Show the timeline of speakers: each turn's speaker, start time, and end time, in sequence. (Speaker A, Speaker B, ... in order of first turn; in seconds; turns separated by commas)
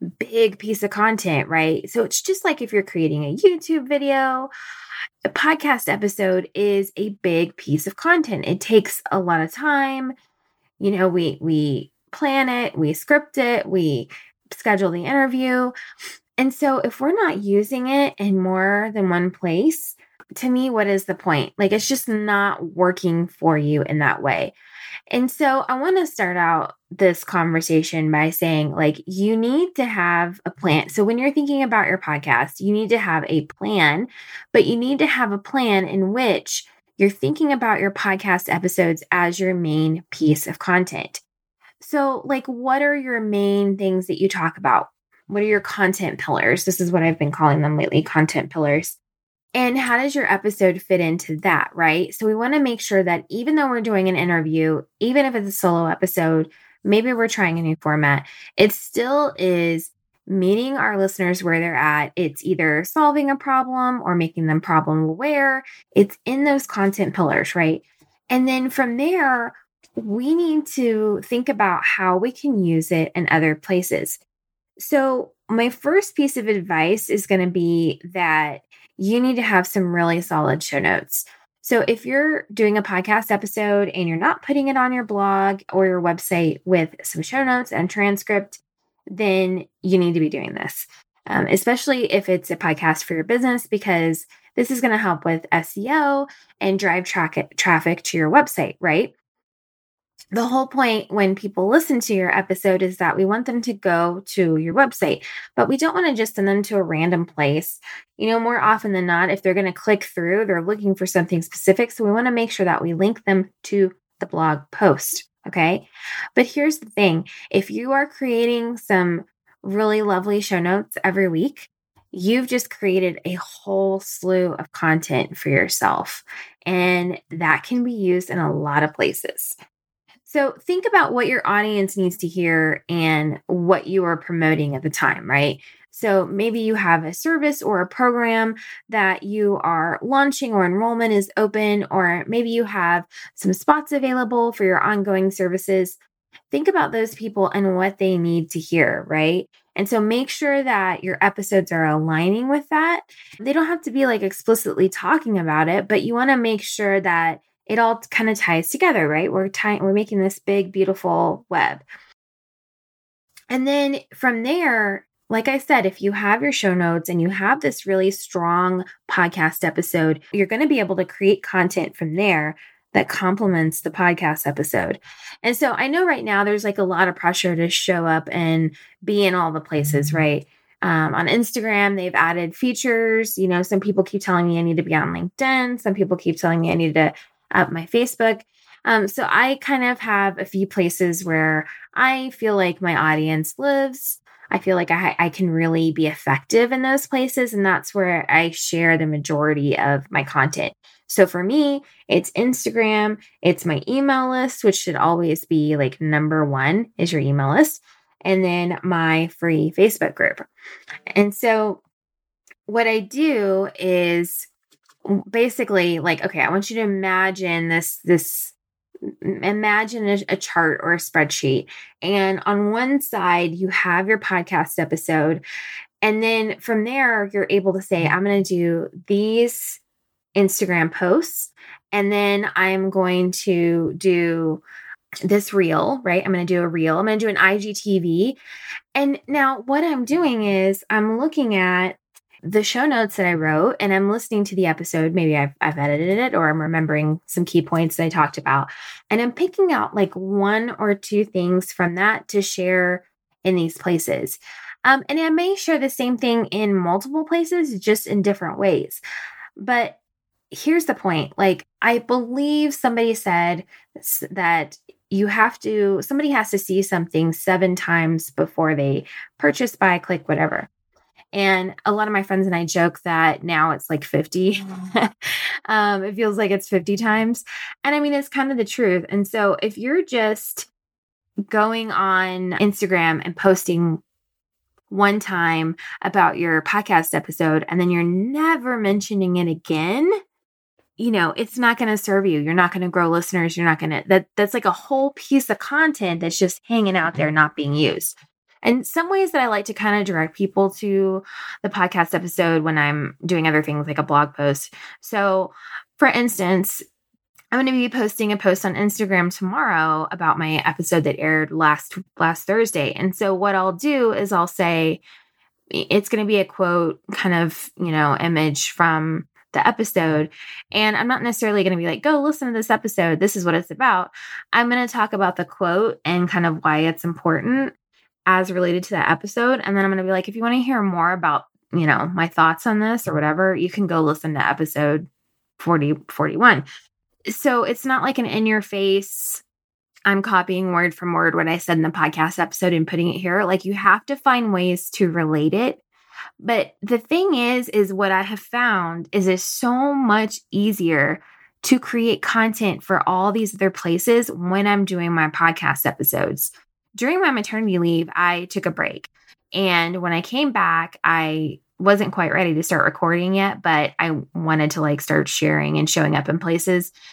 Speaker A: 0.2-4.5, Speaker A: 5.2-10.1, Speaker A: 10.8-15.7, Speaker A: 16.4-24.5, Speaker A: 25.1-41.2, Speaker A: 41.8-49.0, Speaker A: 49.5-74.2, Speaker A: 74.8-88.6, Speaker A: 89.1-99.1, Speaker A: 100.3-129.6, Speaker A: 130.2-146.0, Speaker A: 146.5-161.8, Speaker A: 163.5-210.5, Speaker A: 211.1-211.8, Speaker A: 212.7-214.5, Speaker A: 215.0-218.5, Speaker A: 219.2-225.4, Speaker A: 226.0-229.8, Speaker A: 230.3-234.6, Speaker A: 235.2-238.4, Speaker A: 238.9-259.0, Speaker A: 259.6-260.0, Speaker A: 260.5-270.7, Speaker A: 271.3-275.1, Speaker A: 275.7-280.7, Speaker A: 281.5-284.0, Speaker A: 284.9-290.1, Speaker A: 291.0-306.8, Speaker A: 307.5-315.0, Speaker A: 315.7-327.7, Speaker A: 328.3-335.1, Speaker A: 335.6-336.6, Speaker A: 337.3-339.4, Speaker A: 340.1-345.8, Speaker A: 346.4-366.9